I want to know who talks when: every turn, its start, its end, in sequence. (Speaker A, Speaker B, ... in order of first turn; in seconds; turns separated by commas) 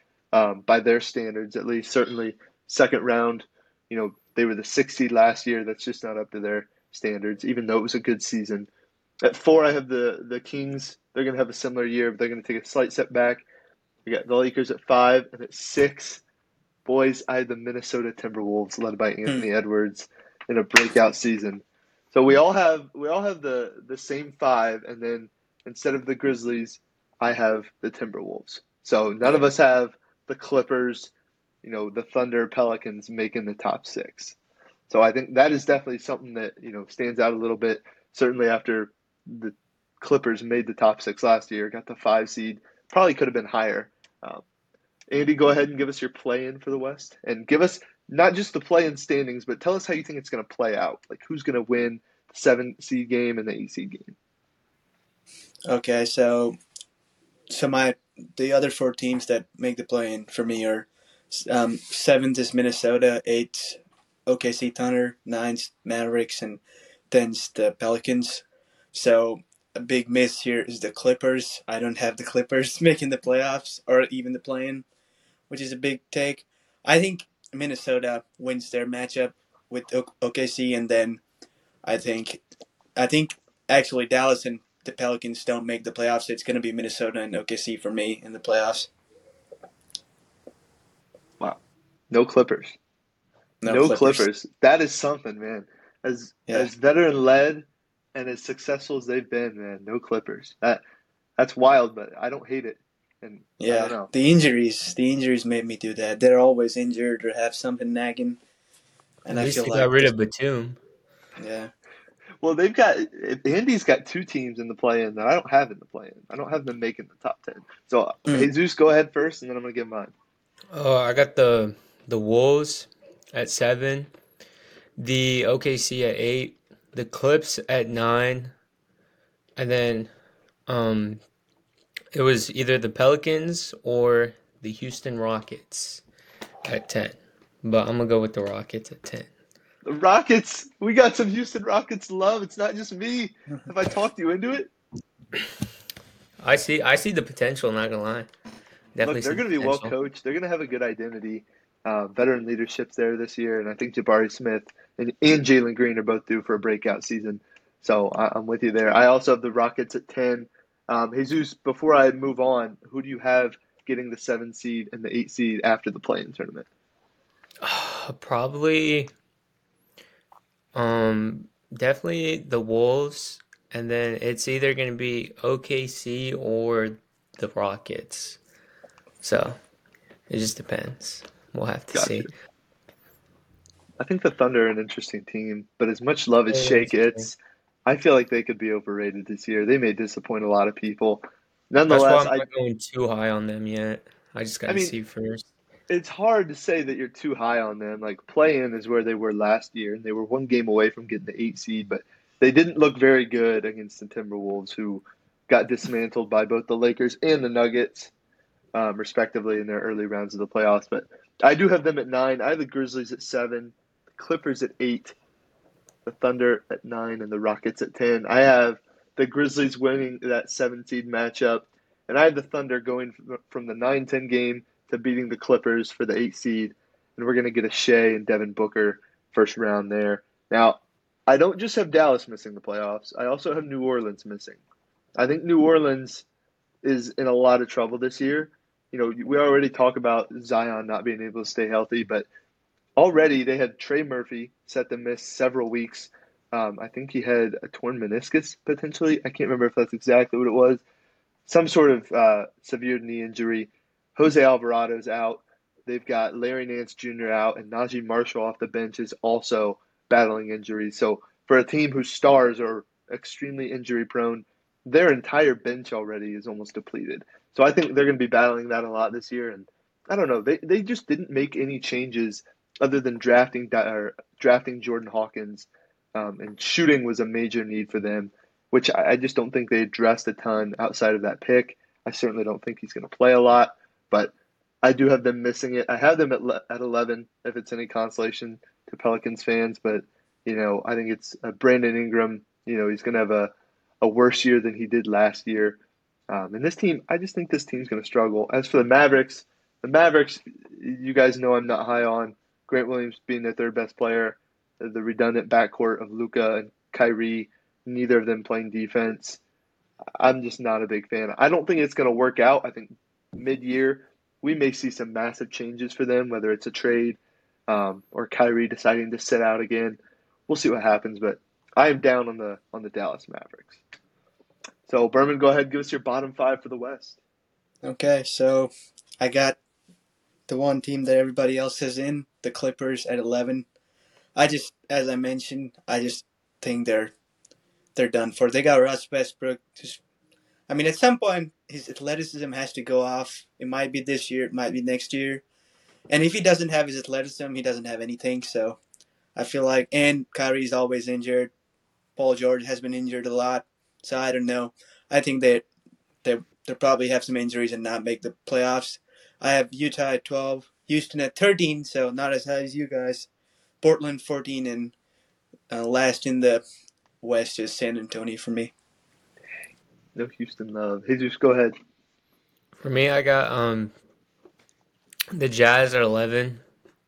Speaker A: 0.3-8.7, Speaker A: 9.2-13.4, Speaker A: 14.1-16.2, Speaker A: 16.9-31.1, Speaker A: 31.6-34.4, Speaker A: 34.9-44.4, Speaker A: 45.1-54.1, Speaker B: 55.7-56.6, Speaker B: 57.5-74.8, Speaker B: 75.5-81.2, Speaker B: 81.8-82.4, Speaker B: 83.0-88.9, Speaker A: 92.1-92.8, Speaker B: 93.6-94.3, Speaker A: 93.7-100.8, Speaker A: 101.4-104.1, Speaker B: 103.6-108.4, Speaker B: 109.2-110.1, Speaker C: 109.3-110.8, Speaker B: 111.4-111.7, Speaker A: 112.4-120.1, Speaker C: 120.7-124.1, Speaker C: 125.0-128.5, Speaker C: 129.6-130.1, Speaker C: 130.7-131.2, Speaker C: 132.1-136.0, Speaker C: 136.6-139.3, Speaker A: 139.8-144.7, Speaker C: 146.4-148.3, Speaker C: 148.9-149.9, Speaker A: 149.0-166.7, Speaker C: 167.6-169.1, Speaker C: 170.7-178.4, Speaker C: 179.2-179.6, Speaker C: 180.3-182.3, Speaker A: 181.9-182.3, Speaker A: 184.0-187.3, Speaker C: 186.5-187.3, Speaker A: 187.8-192.4, Speaker C: 191.9-195.5, Speaker A: 194.7-194.9, Speaker A: 195.9-208.1, Speaker A: 208.7-215.1, Speaker A: 216.1-234.6, Speaker A: 235.2-236.2, Speaker A: 236.8-242.3, Speaker A: 243.0-250.8, Speaker A: 251.4-309.4, Speaker A: 310.2-323.8, Speaker A: 324.9-327.2, Speaker B: 327.8-329.6, Speaker B: 330.5-333.6, Speaker B: 334.4-337.1, Speaker B: 337.9-340.0, Speaker B: 340.7-345.4, Speaker B: 346.1-348.8, Speaker B: 349.4-351.5, Speaker B: 352.1-355.6, Speaker B: 356.2-363.3, Speaker B: 363.8-364.9, Speaker B: 365.7-366.6, Speaker B: 367.2-368.7, Speaker A: 370.1-371.7, Speaker C: 372.8-373.9, Speaker C: 375.3-376.6